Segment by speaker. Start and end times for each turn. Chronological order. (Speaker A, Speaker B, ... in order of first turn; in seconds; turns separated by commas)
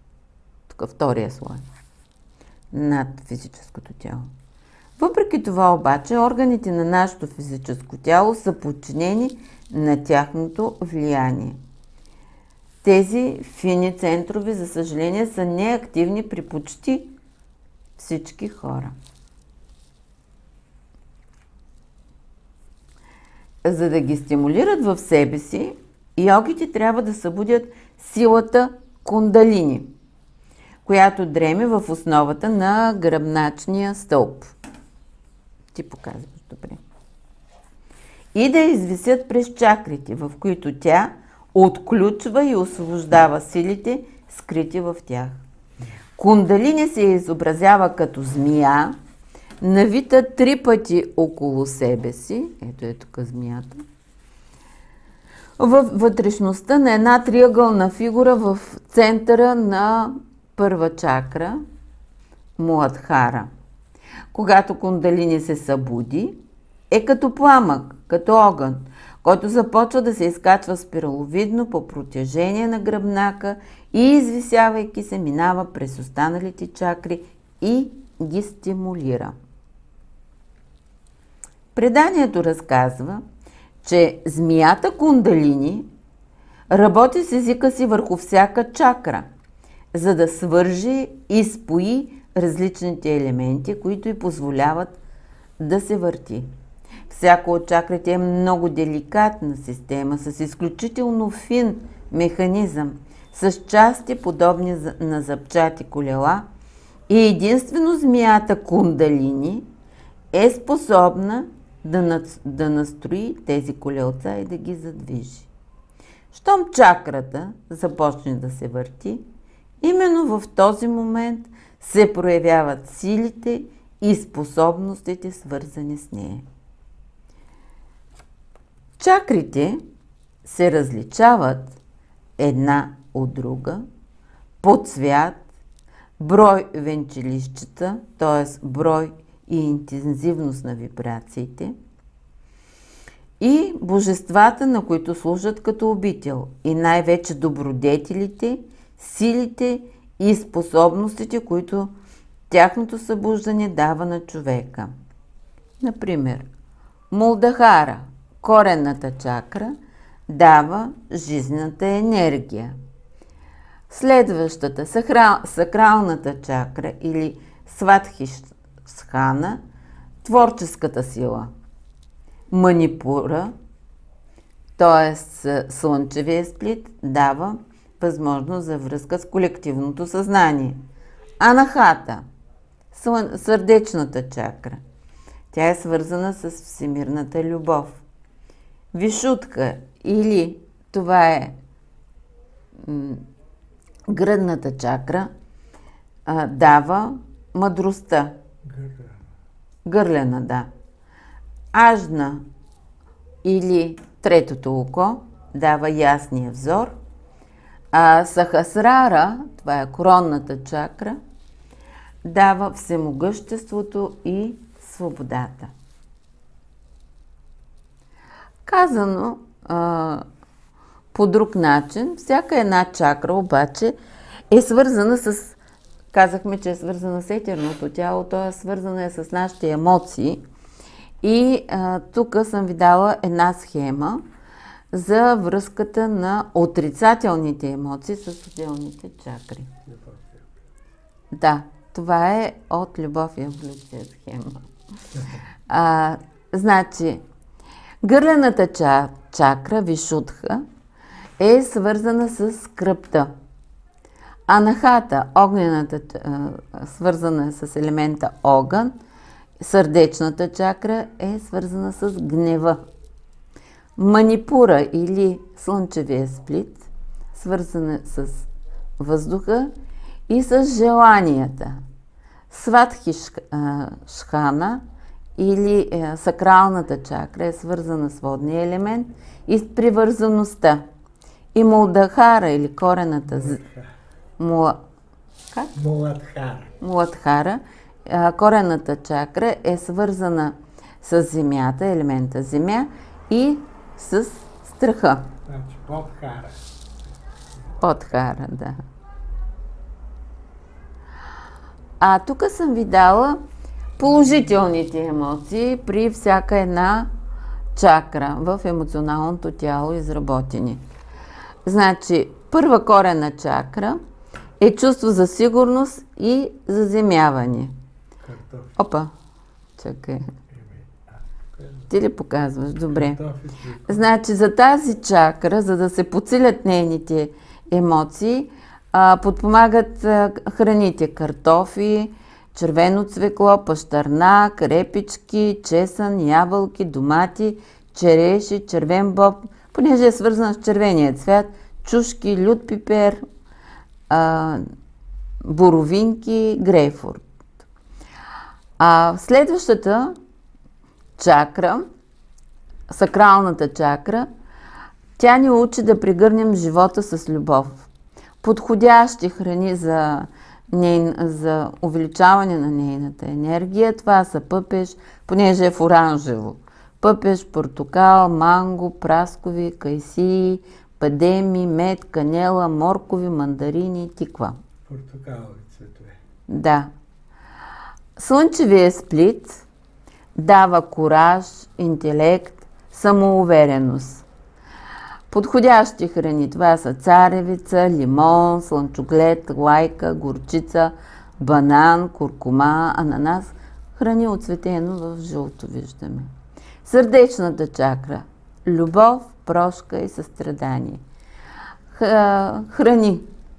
Speaker A: 0.7-1.6, Speaker A: 2.7-4.3, Speaker A: 5.0-11.6, Speaker A: 12.8-17.1, Speaker A: 18.0-18.9, Speaker A: 23.6-29.9, Speaker A: 30.9-34.5, Speaker A: 35.7-36.8, Speaker A: 38.3-45.4, Speaker A: 46.2-49.0, Speaker A: 49.6-53.8, Speaker A: 55.6-61.6, Speaker A: 62.6-63.5, Speaker A: 64.3-66.4, Speaker A: 66.9-79.3, Speaker A: 81.8-83.2, Speaker A: 83.8-85.9, Speaker A: 86.7-89.3, Speaker A: 89.9-95.0, Speaker A: 95.6-96.5, Speaker A: 97.1-106.5, Speaker A: 107.1-109.7, Speaker A: 110.3-115.5, Speaker A: 116.3-119.2, Speaker A: 119.8-126.5, Speaker A: 129.0-129.8, Speaker A: 130.4-131.8, Speaker A: 132.4-133.8, Speaker A: 134.6-135.4, Speaker A: 136.2-141.8, Speaker A: 143.4-151.9, Speaker A: 152.5-154.9, Speaker A: 155.8-156.5, Speaker A: 157.1-159.7, Speaker A: 160.3-162.8, Speaker A: 163.9-169.6, Speaker A: 170.2-171.5, Speaker A: 172.5-173.5, Speaker A: 174.8-180.8, Speaker A: 181.4-182.2, Speaker A: 182.9-184.8, Speaker A: 185.5-188.0, Speaker A: 188.9-191.6, Speaker A: 192.8-193.2, Speaker A: 194.1-195.3, Speaker A: 196.3-198.4, Speaker B: 198.6-199.3, Speaker A: 199.9-200.7, Speaker A: 201.7-202.4, Speaker A: 203.4-207.0, Speaker A: 207.9-211.2, Speaker A: 212.2-215.7, Speaker A: 218.7-220.2, Speaker A: 221.1-224.0, Speaker A: 224.5-225.6, Speaker A: 226.1-230.4, Speaker A: 231.2-234.2, Speaker A: 234.9-239.7, Speaker B: 239.8-240.7, Speaker A: 241.3-244.6, Speaker A: 245.7-247.2, Speaker A: 248.0-250.6, Speaker A: 251.4-253.3, Speaker A: 254.5-258.9, Speaker A: 259.6-262.8, Speaker A: 264.0-268.5, Speaker A: 269.0-269.7, Speaker A: 270.3-271.8, Speaker A: 272.5-274.8, Speaker A: 275.4-280.9, Speaker A: 281.6-283.6, Speaker B: 283.3-283.9, Speaker A: 284.4-284.8, Speaker B: 285.8-286.8, Speaker A: 286.8-295.3, Speaker B: 295.5-296.7, Speaker A: 297.8-298.8, Speaker A: 302.0-303.4, Speaker A: 304.0-307.1, Speaker A: 307.8-310.8, Speaker A: 311.6-314.0, Speaker A: 314.6-317.7, Speaker B: 318.2-318.8, Speaker A: 318.8-319.1, Speaker A: 319.8-320.2, Speaker B: 320.5-321.9, Speaker A: 321.9-323.2, Speaker B: 322.9-324.1, Speaker A: 323.9-343.2, Speaker A: 344.1-344.6, Speaker A: 345.4-347.2, Speaker A: 348.8-350.2, Speaker A: 351.2-351.9, Speaker A: 352.9-354.3, Speaker A: 355.2-357.9, Speaker A: 358.4-374.6, Speaker B: 374.9-376.2, Speaker A: 376.5-376.9, Speaker A: 378.2-379.7, Speaker A: 380.4-384.3, Speaker A: 385.3-396.3, Speaker A: 396.8-401.0, Speaker A: 401.9-403.3